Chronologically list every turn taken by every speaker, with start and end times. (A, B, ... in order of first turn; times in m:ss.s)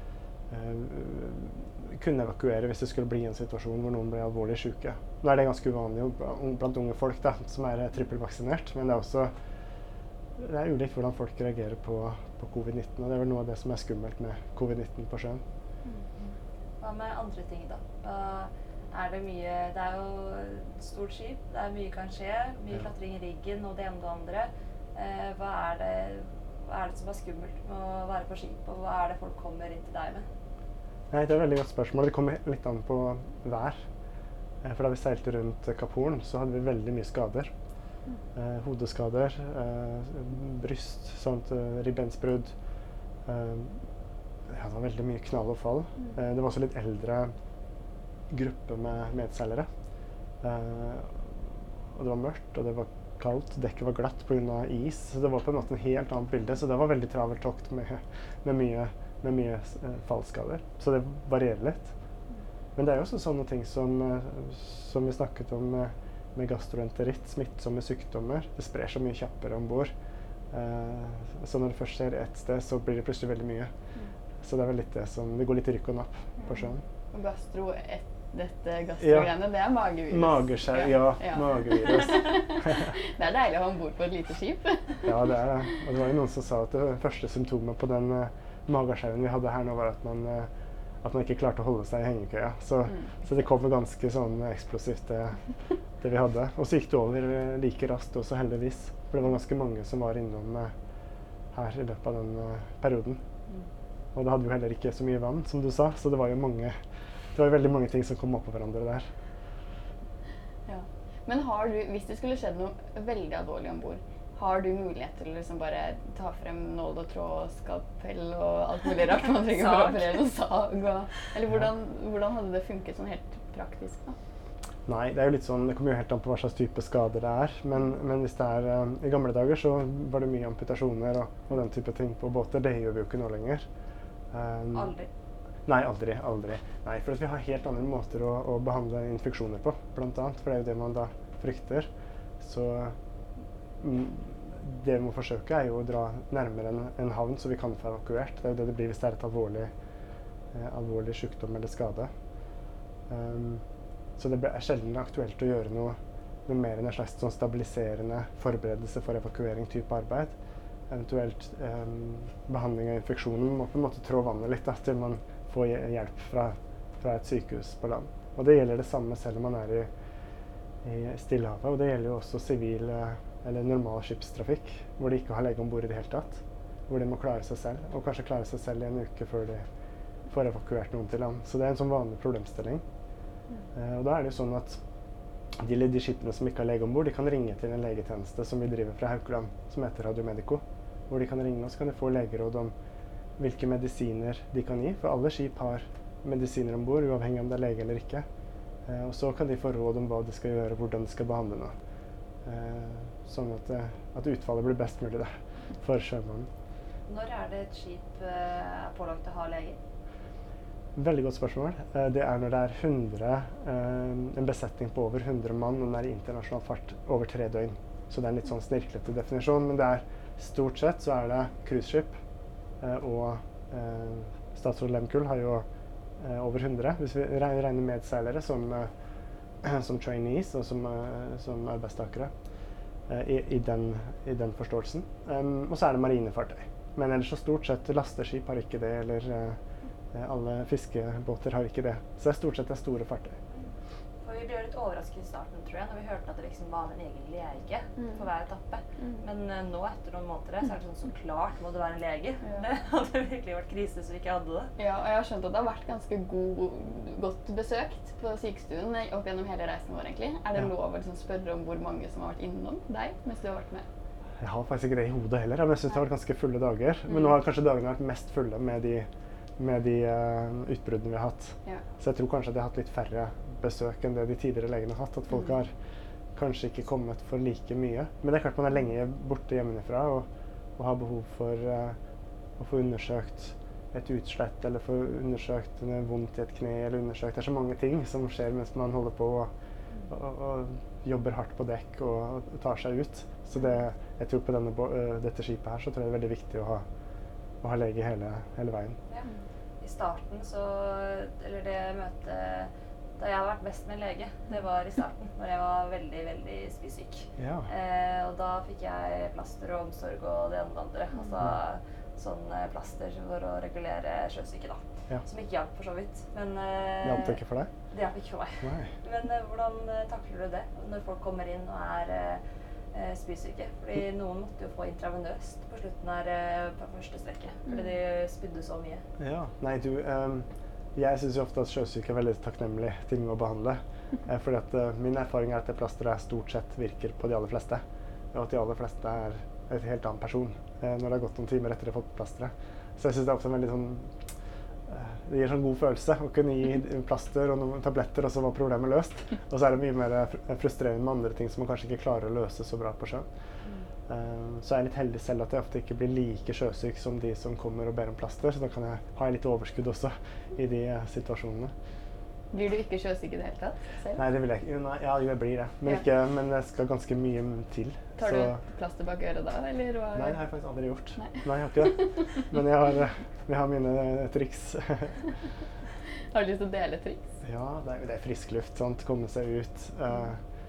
0:00.5-0:09.3 A
0:10.4-0:15.4 A
0:15.8-0:16.3 B
0:16.8-0:30.2 C
0:31.1-0:33.8 A
0:34.6-0:37.5 A
0:38.3-0:42.5 A
0:43.2-0:43.8 A
0:44.5-0:47.3 A
0:48.3-0:49.7 A
0:50.4-1:01.9 A
1:02.8-1:09.9 A
1:10.5-1:13.7 A
1:14.4-1:16.8 A
1:16.4-1:25.1 B
1:19.0-1:19.3 A
1:20.1-1:22.9 A
1:25.0-1:30.5 A
1:31.0-1:35.4 A
1:36.0-1:40.7 A
1:41.5-1:43.2 A
1:44.1-1:46.8 A
1:47.3-1:49.1 A
1:50.7-2:04.2 B
1:59.4-2:00.2 C
2:04.8-2:13.7 A
2:14.3-2:14.9 A
2:14.7-2:15.1 C
2:15.6-2:21.9 A
2:22.4-2:23.0 A
2:23.8-2:29.7 A
2:30.5-2:32.1 A
2:33.1-2:33.6 A
2:34.2-2:40.3 A
2:40.9-2:49.9 A
2:50.8-2:59.6 A
3:00.3-3:02.8 A
3:03.7-3:04.8 A
3:05.5-3:12.7 A
3:13.4-3:18.2 A
3:18.9-3:21.7 A
3:22.4-3:26.5 A
3:27.1-3:29.8 C
3:30.9-3:42.1 A
3:42.8-3:45.6 A
3:46.2-3:48.9 A
3:49.6-3:52.3 A
3:53.1-3:59.6 A
4:00.1-4:03.4 A
4:04.2-4:14.7 C
4:14.8-4:23.8 B
4:24.4-4:29.1 A
4:29.6-4:35.7 A
4:36.3-4:42.0 A
4:42.6-4:49.5 A
4:50.1-4:56.8 A
4:57.6-4:59.0 A
4:59.8-5:17.4 C
5:07.4-5:07.7 A
5:17.0-5:17.7 A
5:17.9-5:22.4 C
5:18.6-5:18.9 A
5:22.9-5:29.0 C
5:29.2-5:44.3 A
5:44.9-5:53.3 A
5:54.1-6:01.7 A
6:02.5-6:04.2 B
6:04.1-6:08.6 A
6:08.2-6:10.4 B
6:10.1-6:15.3 A
6:11.2-6:12.4 B
6:16.3-6:17.3 B
6:17.4-6:20.4 A